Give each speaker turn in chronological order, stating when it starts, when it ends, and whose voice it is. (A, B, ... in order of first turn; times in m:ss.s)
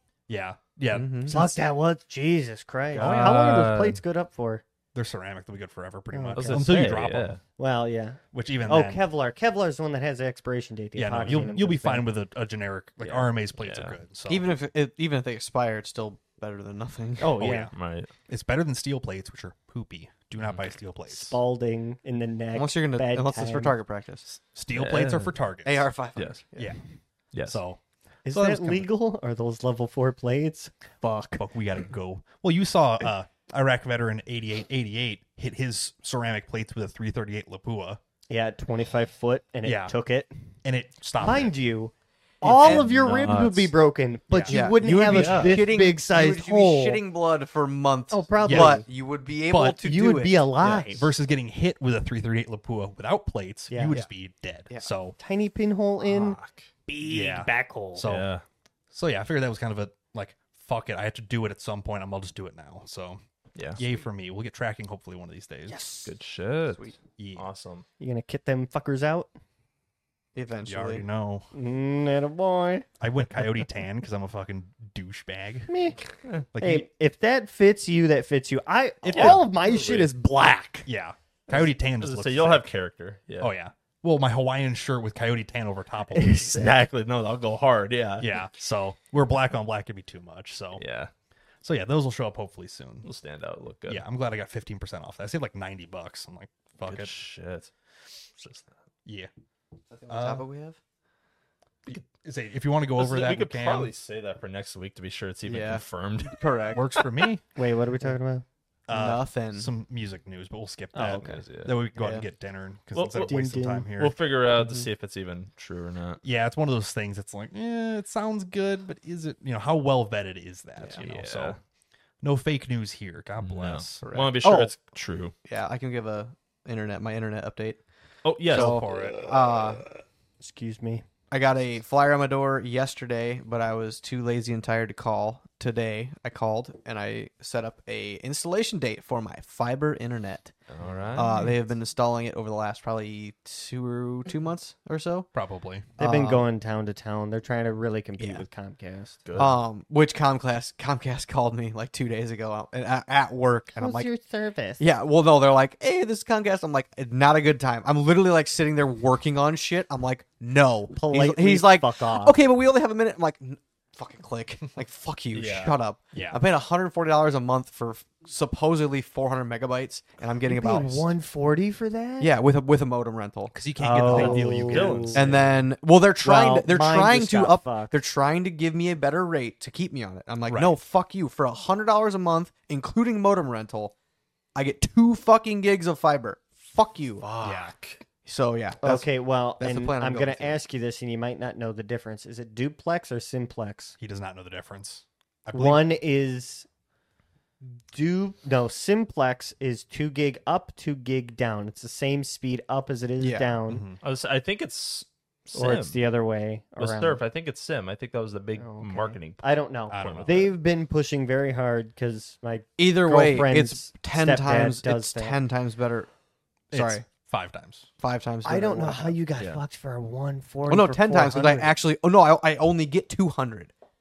0:00.3-0:01.6 A
0:00.9-0:01.4 B
0:01.3-0:04.6 C
0:02.9-0:04.0 D
0:03.0-0:03.5 A
0:04.9-0:07.4 A
0:06.1-0:06.8 C
0:06.4-0:07.4 D
0:07.6-0:12.0 C
0:08.3-0:09.0 A
0:11.0-0:14.5 A
0:13.0-0:14.0 D
0:14.3-0:17.3 B
0:17.2-0:17.7 C
0:17.4-0:17.7 A
0:17.4-0:18.1 D
0:18.3-0:21.4 A
0:21.1-0:23.7 C
0:22.5-0:24.2 B
0:24.2-0:25.9 A
0:24.7-0:25.3 D
0:25.6-0:26.7 B
0:27.4-0:28.9 A
0:28.2-0:31.4 C
0:31.4-0:38.0 A
0:38.3-0:40.3 C
0:39.6-0:39.9 A
0:40.6-0:41.5 A
0:41.2-0:47.0 C
0:42.4-0:42.8 B
0:42.4-0:43.7 D
0:44.3-0:44.7 A
0:44.5-0:50.5 B
0:44.9-0:45.6 D
0:48.1-0:48.8 C
0:48.4-0:48.8 A
0:49.5-0:49.8 A
0:49.8-0:51.1 C
0:50.6-0:51.0 D
0:50.9-0:55.1 A
0:53.7-0:54.0 C
0:55.2-0:58.0 C
0:56.0-0:56.7 D
0:57.0-0:58.3 A
0:58.0-0:58.4 D
0:58.9-1:03.2 A
1:03.6-1:03.8 D
1:03.8-1:05.8 A
1:05.7-1:06.1 C
1:06.0-1:07.8 D
1:07.2-1:07.4 A
1:08.0-1:09.3 C
1:10.3-1:11.0 B
1:10.6-1:11.4 A
1:11.5-1:12.8 C
1:13.0-1:15.7 A
1:15.7-1:16.0 C
1:16.5-1:16.8 A
1:16.6-1:20.9 C
1:19.0-1:19.5 A
1:19.1-1:20.0 D
1:20.8-1:22.7 A
1:22.0-1:23.5 D
1:23.4-1:26.7 A
1:26.1-1:26.6 C
1:26.3-1:28.3 D
1:28.2-1:30.8 A
1:30.8-1:31.1 D
1:31.6-1:33.1 A
1:33.0-1:34.0 D
1:33.9-1:37.1 A
1:36.8-1:37.7 D
1:38.4-1:38.7 D
1:39.0-1:39.3 A
1:39.9-1:40.8 B
1:40.1-1:40.4 A
1:41.9-1:43.9 A
1:43.0-1:47.1 D
1:45.4-1:46.8 B
1:46.7-1:47.4 A
1:47.6-1:48.4 C
1:48.9-1:54.2 A
1:48.9-1:49.7 B
1:50.9-1:51.4 C
1:51.0-1:51.8 D
1:51.9-1:52.3 B
1:52.9-1:56.2 D
1:53.2-1:53.9 C
1:54.6-1:54.9 B
1:56.2-2:01.6 A
2:01.0-2:01.6 D
2:02.2-2:04.0 A
2:03.4-2:05.3 D
2:04.0-2:04.7 B
2:05.4-2:07.8 B
2:08.2-2:09.1 D
2:08.5-2:09.8 B
2:08.5-2:09.1 A
2:10.4-2:11.0 C
2:11.3-2:20.5 B
2:20.7-2:21.5 D
2:21.1-2:25.3 B
2:25.3-2:25.9 A
2:26.0-2:26.5 B
2:26.0-2:29.2 C
2:28.2-2:28.4 B
2:29.2-2:29.6 D
2:29.4-2:34.1 B
2:33.8-2:34.8 C
2:34.8-2:51.0 B
2:40.9-2:42.3 C
2:45.3-2:45.8 D
2:46.1-2:46.4 A
2:50.5-2:52.3 C
2:52.2-2:53.6 B
2:53.5-2:55.2 A
2:53.8-2:55.3 C
2:54.1-3:03.9 B
2:54.1-2:55.6 D
2:56.2-2:57.9 C
3:00.5-3:00.7 A
3:04.5-3:07.3 B
3:07.2-3:08.0 D
3:07.4-3:07.7 A
3:08.2-3:10.6 B
3:08.8-3:13.9 C
3:14.0-3:15.8 A
3:15.5-3:16.7 C
3:17.9-3:23.8 C
3:23.2-3:23.6 B
3:23.7-3:24.0 A
3:24.0-3:26.0 D
3:25.5-3:27.2 C
3:26.8-3:30.5 D
3:28.6-3:35.4 C
3:29.9-3:30.4 A
3:32.8-3:36.1 B
3:36.7-3:37.9 A
3:36.7-3:37.0 B
3:38.0-3:39.2 B
3:38.4-3:41.7 C
3:40.7-3:43.7 B